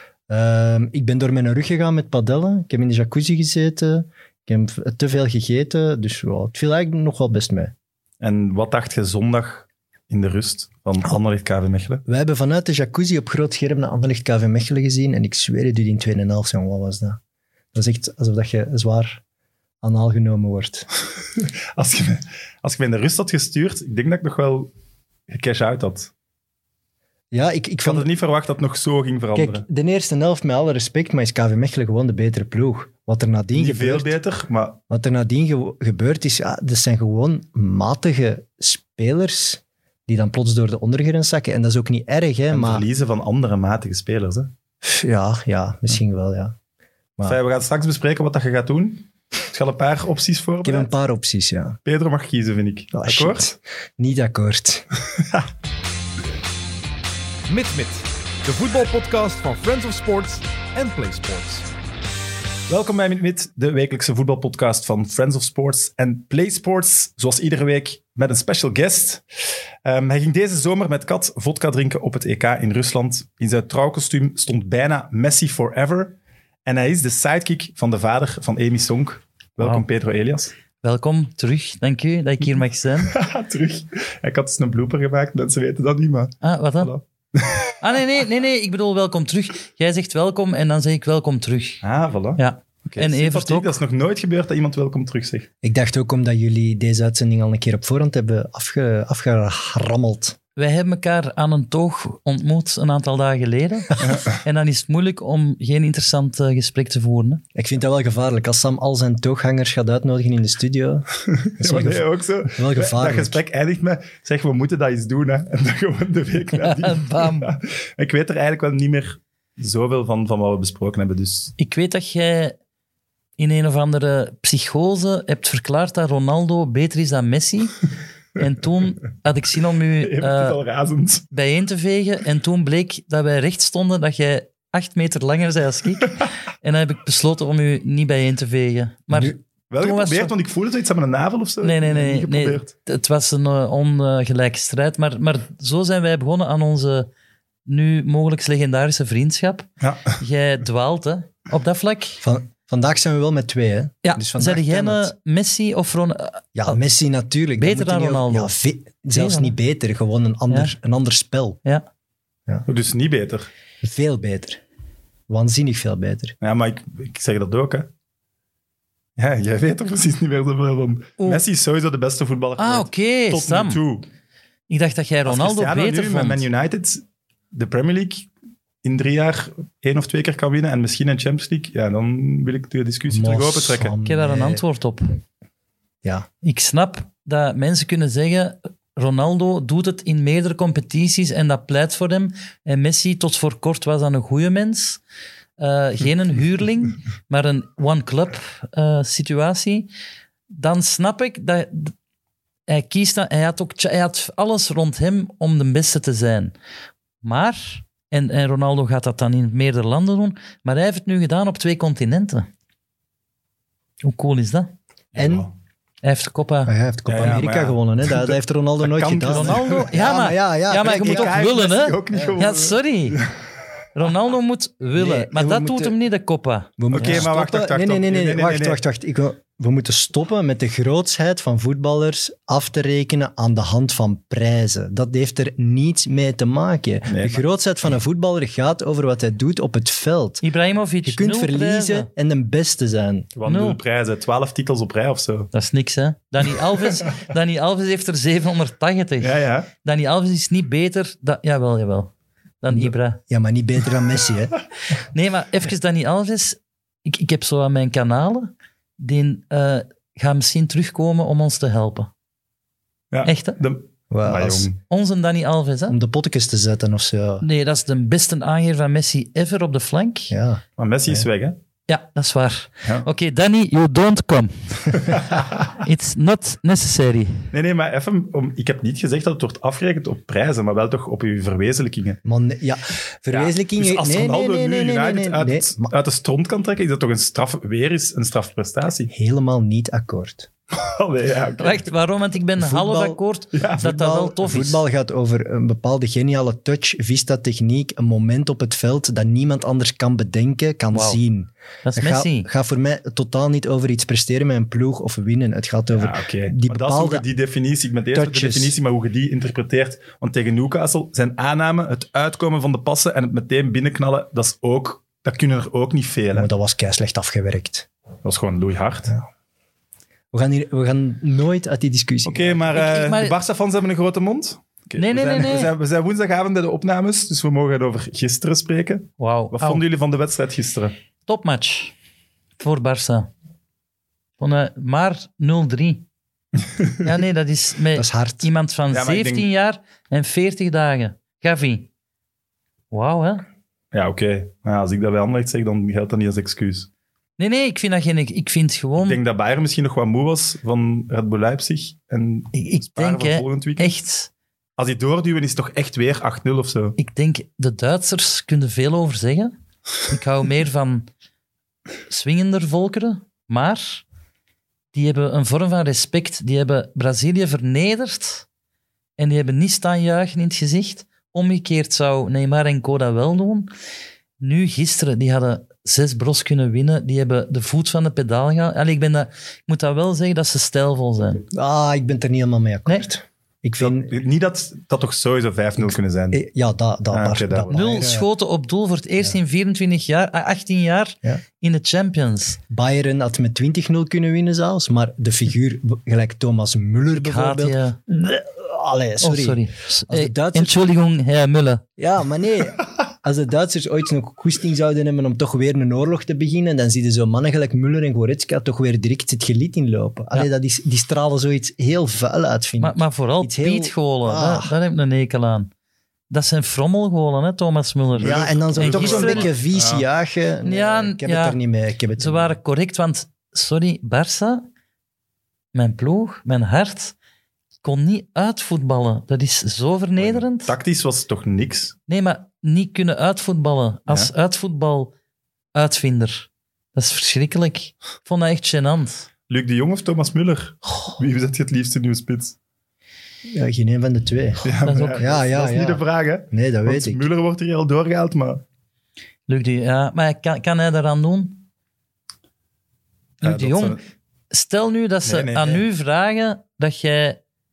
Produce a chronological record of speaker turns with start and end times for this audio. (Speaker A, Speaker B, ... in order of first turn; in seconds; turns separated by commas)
Speaker A: 0.3-7.7, Speaker B: 8.2-12.0, Speaker A: 12.1-17.2, Speaker A: 17.7-19.2, Speaker A: 19.8-20.9, Speaker B: 21.4-24.7, Speaker B: 25.3-26.1, Speaker A: 27.3-28.1, Speaker B: 27.8-29.6, Speaker A: 29.4-34.1, Speaker B: 33.5-34.8, Speaker A: 34.9-42.9, Speaker B: 42.5-44.5, Speaker A: 44.8-46.6, Speaker B: 47.2-50.9, Speaker A: 50.6-51.8, Speaker B: 51.9-53.5, Speaker A: 52.9-54.9, Speaker B: 55.2-55.5, Speaker C: 57.5-61.7, Speaker B: 62.7-69.2, Speaker B: 69.8-80.5, Speaker D: 80.8-83.1, Speaker B: 83.0-87.8, Speaker D: 86.4-86.9, Speaker D: 87.8-91.8, Speaker B: 91.8-95.5, Speaker D: 92.4-93.7, Speaker A: 95.6-100.4, Speaker D: 100.6-107.4, Speaker B: 104.0-104.4, Speaker A: 107.5-111.1, Speaker B: 111.3-121.5, Speaker A: 111.6-113.4, Speaker D: 116.6-117.5, Speaker D: 121.6-122.6, Speaker D: 123.4-127.8, Speaker D: 128.4-130.6, Speaker B: 130.0-131.3, Speaker D: 131.3-140.3, Speaker B: 139.7-142.7, Speaker D: 141.6-147.1, Speaker D: 147.7-152.2, Speaker B: 149.8-150.2, Speaker A: 152.2-155.1, Speaker D: 154.0-156.8, Speaker A: 156.6-161.6, Speaker D: 157.6-158.5, Speaker D: 159.1-159.5, Speaker B: 162.7-163.5, Speaker A: 163.8-164.6, Speaker A: 165.3-166.3, Speaker B: 166.4-167.9, Speaker B: 169.2-174.1, Speaker D: 172.6-173.8, Speaker D: 174.7-176.4, Speaker B: 175.3-178.3, Speaker B: 178.8-183.9, Speaker A: 183.1-184.6, Speaker D: 184.1-185.2, Speaker D: 186.4-195.0, Speaker D: 195.6-199.9, Speaker D: 200.5-201.9, Speaker D: 202.7-206.5, Speaker D: 207.2-212.5, Speaker D: 214.0-214.7, Speaker A: 215.2-215.5, Speaker B: 215.2-215.5, Speaker D: 216.0-216.7, Speaker A: 216.7-221.4, Speaker B: 217.1-219.9, Speaker D: 219.3-223.2, Speaker B: 220.8-223.3, Speaker D: 223.9-227.3, Speaker A: 225.0-225.9, Speaker A: 226.8-240.4, Speaker B: 226.9-228.8, Speaker B: 237.1-237.4, Speaker D: 240.4-242.1, Speaker A: 241.1-243.3, Speaker B: 243.4-245.5, Speaker D: 243.4-243.8, Speaker D: 245.5-252.1, Speaker B: 249.2-249.7, Speaker D: 252.6-253.2, Speaker A: 252.7-254.6, Speaker D: 255.1-262.1, Speaker B: 263.1-264.8, Speaker D: 263.2-263.6, Speaker A: 264.1-264.7, Speaker D: 264.9-266.0, Speaker A: 265.9-267.4, Speaker D: 267.4-270.3, Speaker A: 270.3-271.2, Speaker B: 270.8-271.6, Speaker D: 271.9-277.5, Speaker B: 274.9-275.4, Speaker B: 277.5-282.2, Speaker A: 282.2-285.9, Speaker B: 283.3-289.1, Speaker A: 289.1-290.5, Speaker B: 290.7-291.8, Speaker D: 291.6-294.8, Speaker A: 292.6-293.2, Speaker B: 293.5-293.8, Speaker A: 293.8-307.2, Speaker D: 300.9-301.2, Speaker D: 301.8-302.5, Speaker B: 306.0-316.5, Speaker A: 308.1-308.7, Speaker A: 316.4-317.9, Speaker B: 318.2-319.1, Speaker A: 320.3-322.6, Speaker B: 322.2-330.9, Speaker D: 322.7-323.4, Speaker D: 325.0-325.7, Speaker D: 329.2-329.8, Speaker D: 331.3-331.9, Speaker D: 332.6-333.3, Speaker D: 334.4-336.1, Speaker D: 337.0-341.9, Speaker A: 337.9-338.5, Speaker B: 338.9-339.5, Speaker D: 342.9-343.4, Speaker B: 343.9-346.9, Speaker D: 347.4-349.2, Speaker B: 349.0-353.9, Speaker D: 352.5-354.3, Speaker B: 354.8-356.9, Speaker D: 357.0-359.5, Speaker D: 360.1-361.1, Speaker D: 362.1-364.0, Speaker D: 364.9-368.4, Speaker D: 369.2-373.7, Speaker D: 374.4-381.4, Speaker A: 381.5-384.1, Speaker B: 383.8-386.4, Speaker A: 386.3-388.3, Speaker B: 387.1-387.8, Speaker D: 387.7-392.6, Speaker A: 392.7-400.8, Speaker D: 397.1-398.0, Speaker D: 399.2-401.8, Speaker A: 402.0-414.7, Speaker D: 412.8-415.7, Speaker D: 416.3-419.5, Speaker B: 418.2-420.1, Speaker A: 418.2-422.6, Speaker D: 420.6-421.6, Speaker D: 422.2-424.6, Speaker D: 425.7-427.1, Speaker D: 427.8-430.7, Speaker B: 430.2-431.9, Speaker D: 432.1-435.1, Speaker D: 435.7-439.3, Speaker B: 439.5-442.6, Speaker A: 443.5-447.2, Speaker B: 444.6-448.6, Speaker D: 444.9-445.2, Speaker D: 449.5-451.6, Speaker B: 453.4-454.0, Speaker D: 453.4-454.0, Speaker D: 454.5-457.4, Speaker B: 455.2-455.8